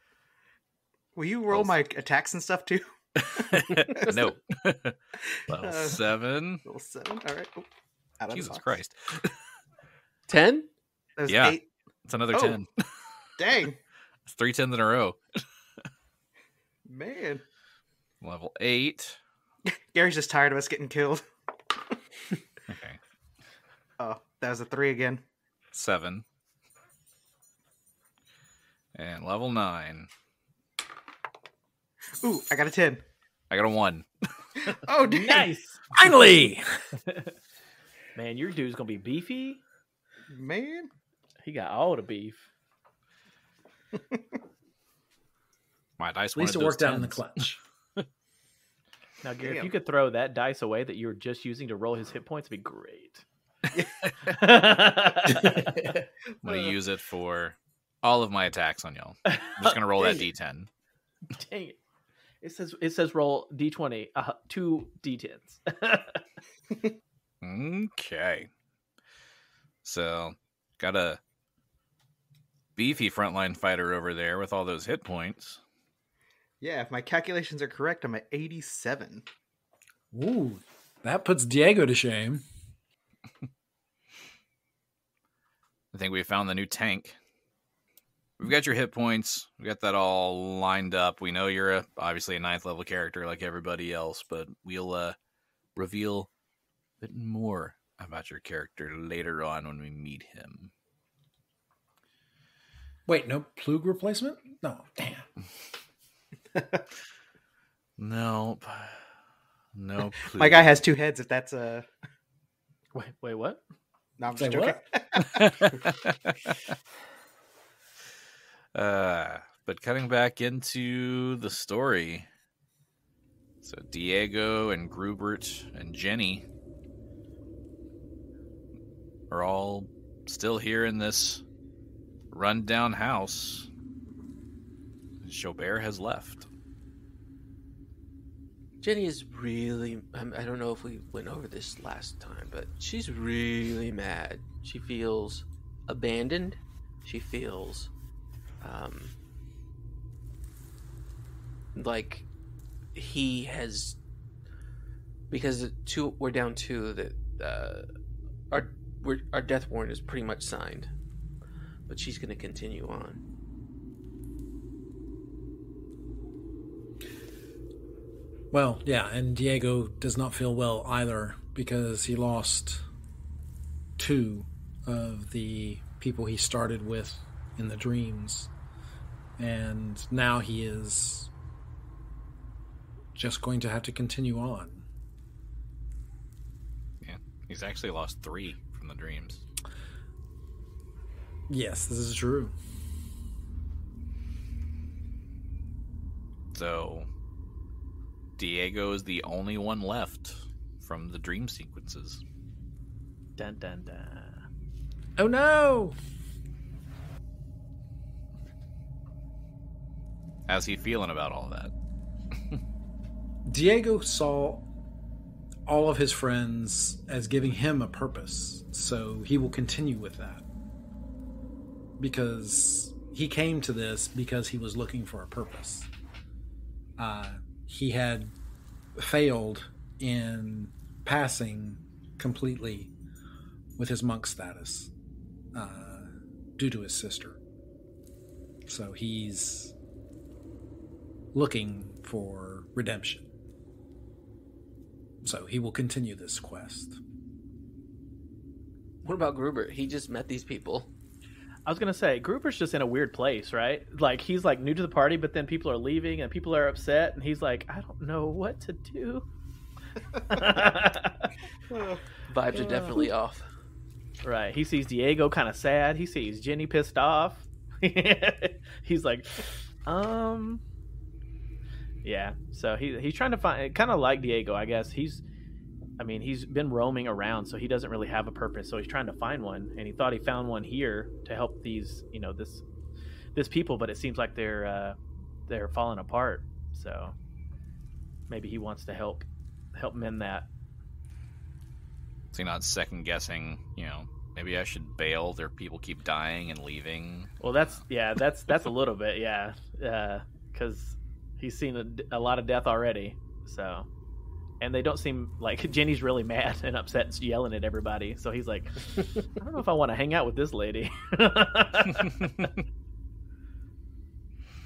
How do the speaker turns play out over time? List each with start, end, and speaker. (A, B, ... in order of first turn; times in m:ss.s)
0:01.2-0:04.2 A
0:03.3-0:06.6 B
0:05.5-0:06.0 A
0:06.7-0:07.7 A
0:08.2-0:08.7 A
0:08.3-0:09.4 B
0:10.3-0:10.7 C
0:11.2-0:11.6 A
0:11.3-0:12.9 B
0:12.3-0:12.6 A
0:13.4-0:13.8 A
0:14.3-0:15.2 B
0:16.9-0:17.4 A
0:18.2-0:19.2 B
0:19.7-0:21.2 A
0:22.7-0:23.0 B
0:24.0-0:25.2 A
0:25.7-0:26.2 B
0:29.0-0:30.1 B
0:32.2-0:33.0 A
0:33.5-0:34.1 B
0:34.7-0:35.5 A
0:35.0-0:35.9 D
0:35.9-0:36.8 E
0:38.2-0:39.6 D
0:40.3-0:40.9 A
0:41.4-0:42.5 D
0:46.0-0:47.4 B
0:46.4-0:47.6 E
0:49.2-0:53.2 D
0:49.4-0:49.7 A
0:53.7-0:54.4 A
0:54.3-0:55.9 D
0:56.4-1:00.7 B
0:59.3-1:00.2 D
1:01.3-1:01.8 D
1:02.4-1:06.2 D
1:07.4-1:08.5 B
1:09.8-1:11.2 B
1:12.8-1:15.6 B
1:16.6-1:19.2 A
1:20.1-1:22.4 E
1:25.9-1:27.2 B
1:28.4-1:35.2 B
1:35.8-1:36.3 B
1:37.0-1:40.7 B
1:43.1-1:45.3 E
1:46.6-1:46.8 A
1:48.0-1:49.1 B
1:49.8-1:50.7 B
1:50.3-1:51.9 A
1:52.9-1:53.6 D
1:54.2-1:56.0 A
1:54.3-1:54.9 E
1:55.3-1:56.2 B
1:58.7-2:02.3 B
2:03.6-2:06.4 B
2:09.3-2:11.4 B
2:12.3-2:13.7 B
2:15.2-2:16.5 B
2:18.8-2:27.9 C
2:28.6-2:29.1 C
2:31.8-2:32.3 C
2:33.0-2:34.0 C
2:35.3-2:37.9 C
2:38.5-2:40.9 C
2:41.9-2:43.2 C
2:48.5-2:52.8 E
2:54.0-2:58.5 E
2:59.4-3:01.3 E
3:03.2-3:04.8 E
3:07.0-3:09.4 B
3:11.5-3:12.6 E
3:16.5-3:17.1 B
3:18.4-3:22.2 B
3:23.4-3:24.4 D
3:25.2-3:26.0 E
3:30.5-3:31.7 B
3:33.5-3:34.7 E
3:35.7-3:40.4 E
3:42.0-3:45.9 E
3:47.0-3:48.4 E
3:49.0-3:52.9 E
3:53.8-3:54.9 E
3:55.5-3:57.4 E
3:58.7-3:59.8 E
4:01.3-4:03.3 E
4:05.2-4:07.0 E
4:09.0-4:10.9 C
4:11.7-4:19.3 D
4:20.3-4:21.3 D
4:21.7-4:22.0 A
4:22.3-4:23.5 C
4:22.6-4:23.1 D
4:24.2-4:30.6 D
4:32.0-4:35.2 D
4:36.0-4:42.6 D
4:43.4-4:47.2 D
4:48.3-4:50.5 D
4:52.3-4:57.3 B
4:57.4-5:03.9 D
5:04.6-5:12.5 D